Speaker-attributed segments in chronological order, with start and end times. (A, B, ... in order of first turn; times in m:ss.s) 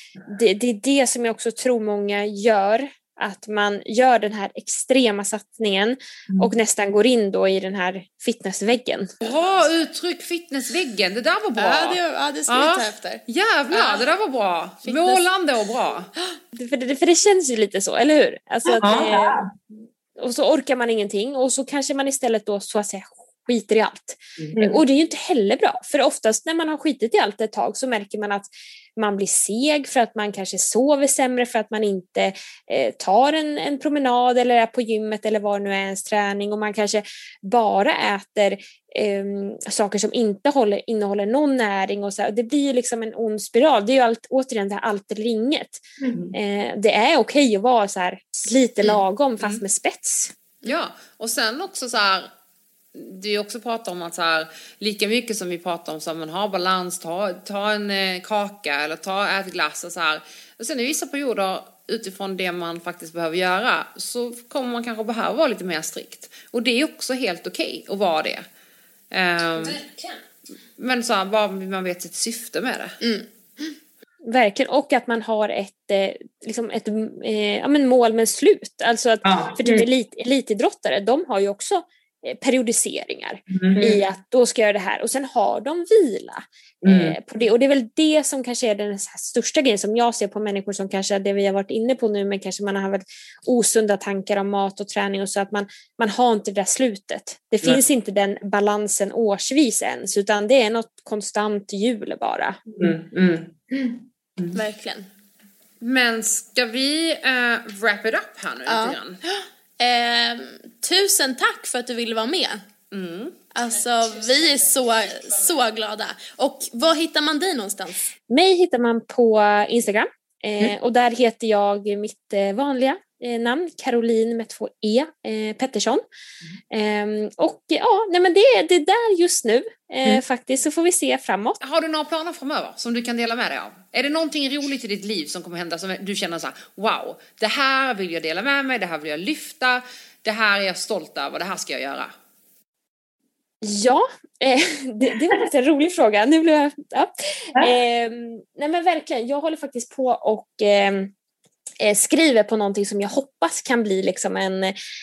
0:00.3-0:09.1 A
0:09.2-0:16.1 B
0:11.6-0:14.1 C
0:14.8-0:15.2 C
0:16.5-0:19.4 A
0:18.8-0:19.5 D
0:20.2-0:50.3 A
0:24.4-0:24.8 D
0:46.0-0:46.3 D
0:50.6-0:52.3 B
0:52.9-1:08.4 B
1:09.1-1:09.8 B
1:10.8-1:13.0 B
1:14.3-1:42.6 A
1:19.2-1:19.9 D
1:23.5-1:24.0 D
1:26.8-1:27.2 D
1:42.7-1:44.6 D
1:44.5-1:45.1 C
1:45.8-1:49.2 B
1:48.7-1:52.6 C
1:52.9-1:53.4 B
1:53.5-1:58.1 C
1:58.3-2:06.0 A
2:06.7-2:11.6 A
2:11.6-2:22.1 B
2:23.6-2:31.1 A
2:31.8-2:34.8 A